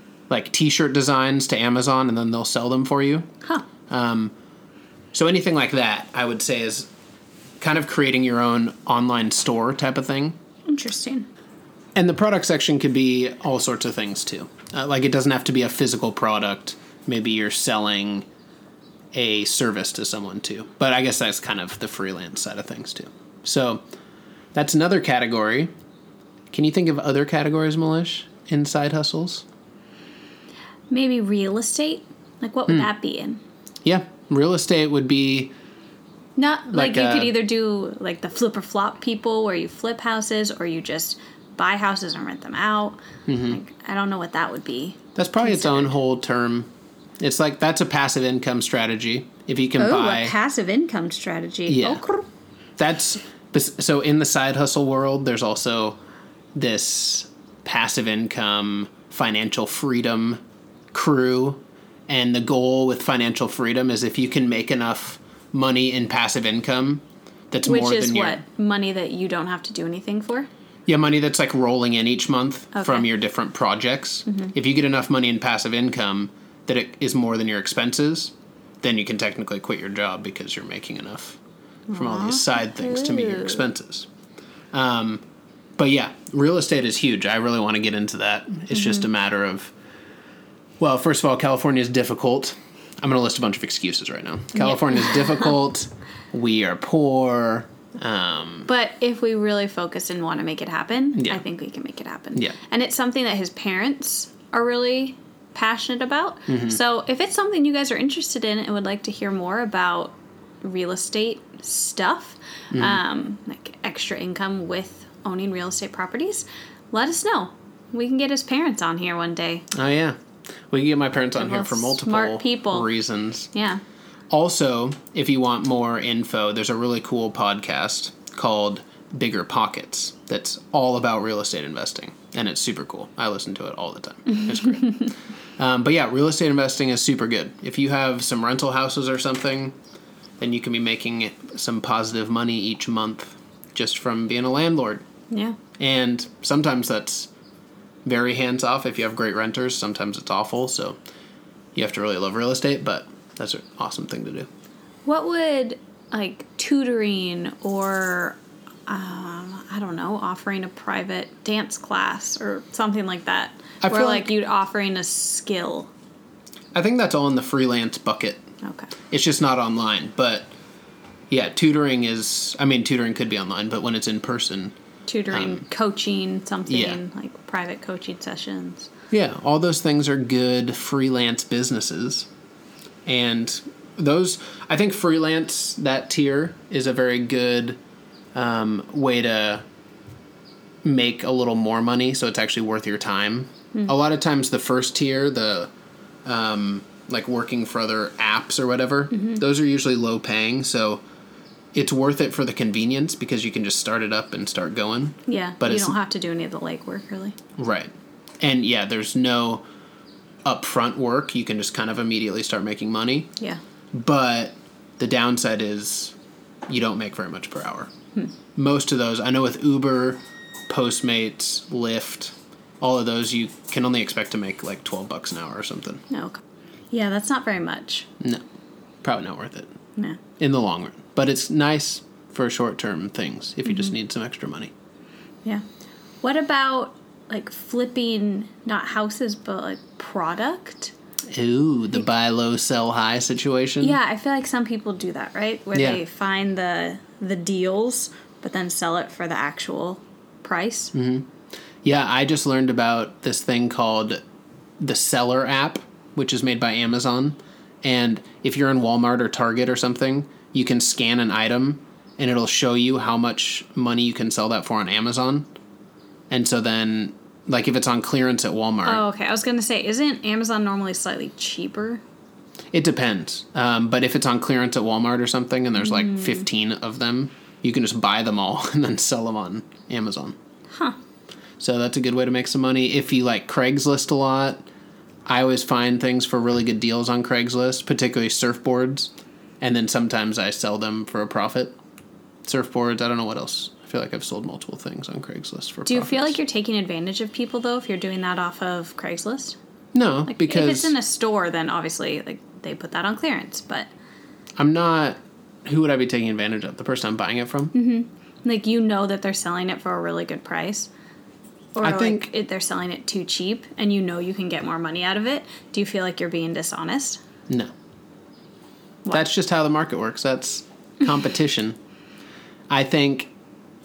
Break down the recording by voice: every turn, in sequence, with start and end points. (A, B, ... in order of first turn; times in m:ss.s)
0:00.3-0:03.3 A
0:03.9-0:04.3 A
0:05.1-0:06.9 A
0:07.6-0:10.4 A
0:10.6-0:11.3 B
0:12.0-0:18.3 A
0:19.1-0:23.8 A
0:24.5-0:25.7 A
0:26.5-0:29.4 A
0:30.9-0:33.4 B
0:33.8-0:35.5 A
0:36.4-0:46.0 B
0:36.7-0:37.4 A
0:43.3-0:43.6 A
0:45.1-0:50.3 A
0:49.8-0:52.3 B
0:51.7-0:52.0 A
0:52.8-0:56.0 A
0:56.5-1:00.4 A
1:00.9-1:08.4 A
1:07.6-1:10.5 B
1:10.9-1:24.1 A
1:12.7-1:13.1 B
1:21.9-1:23.6 B
1:24.7-1:25.2 A
1:25.8-1:29.7 A
1:28.7-1:29.0 B
1:30.8-1:38.7 A
1:34.6-1:35.5 B
1:38.7-1:59.7 B
1:41.1-1:41.4 A
1:46.5-1:46.8 A
1:52.7-1:53.0 A
1:59.7-2:00.2 A
2:00.7-2:03.5 A
2:01.4-2:02.9 B
2:03.5-2:03.8 B
2:04.3-2:19.7 A
2:20.4-2:25.0 A
2:25.3-2:25.6 B
2:25.8-2:27.3 A
2:28.0-2:31.0 A
2:31.7-2:34.5 A
2:35.0-2:45.9 B
2:43.8-2:44.3 A
2:46.7-2:48.5 A
2:48.6-2:48.9 B
2:49.1-2:50.5 A
2:51.3-2:54.7 A
2:55.1-2:58.9 B
2:55.3-2:55.6 A
2:56.7-2:57.0 A
2:59.1-3:02.3 A
3:03.0-3:07.8 A
3:08.3-3:09.6 A
3:10.8-3:15.7 A
3:16.2-3:21.0 A
3:19.1-3:19.4 B
3:21.7-3:26.0 A
3:25.3-3:27.4 B
3:27.6-3:29.6 A
3:30.4-3:33.3 A
3:33.9-3:36.1 A
3:36.7-3:37.9 A
3:38.5-3:46.0 A
3:46.1-3:48.1 B
3:49.0-3:49.7 A
3:50.4-3:54.7 A
3:56.2-4:00.9 B
4:01.3-4:04.0 A
4:03.8-4:10.9 B
4:05.7-4:06.0 A
4:10.9-4:11.3 A
4:11.8-4:14.2 A
4:14.8-4:25.5 A
4:26.3-4:29.0 A
4:28.8-4:32.0 B
4:32.7-4:40.4 A
4:35.8-4:36.4 B
4:40.7-4:41.0 B
4:41.6-4:44.6 A
4:45.3-4:51.8 A
4:52.4-4:56.4 A
4:55.8-4:59.6 B
4:59.9-5:01.0 A
5:00.3-5:03.9 B
5:04.6-5:07.7 A
5:07.7-5:10.9 B
5:11.7-5:17.2 B
5:11.8-5:12.3 A
5:19.1-5:21.8 A
5:22.7-5:23.3 A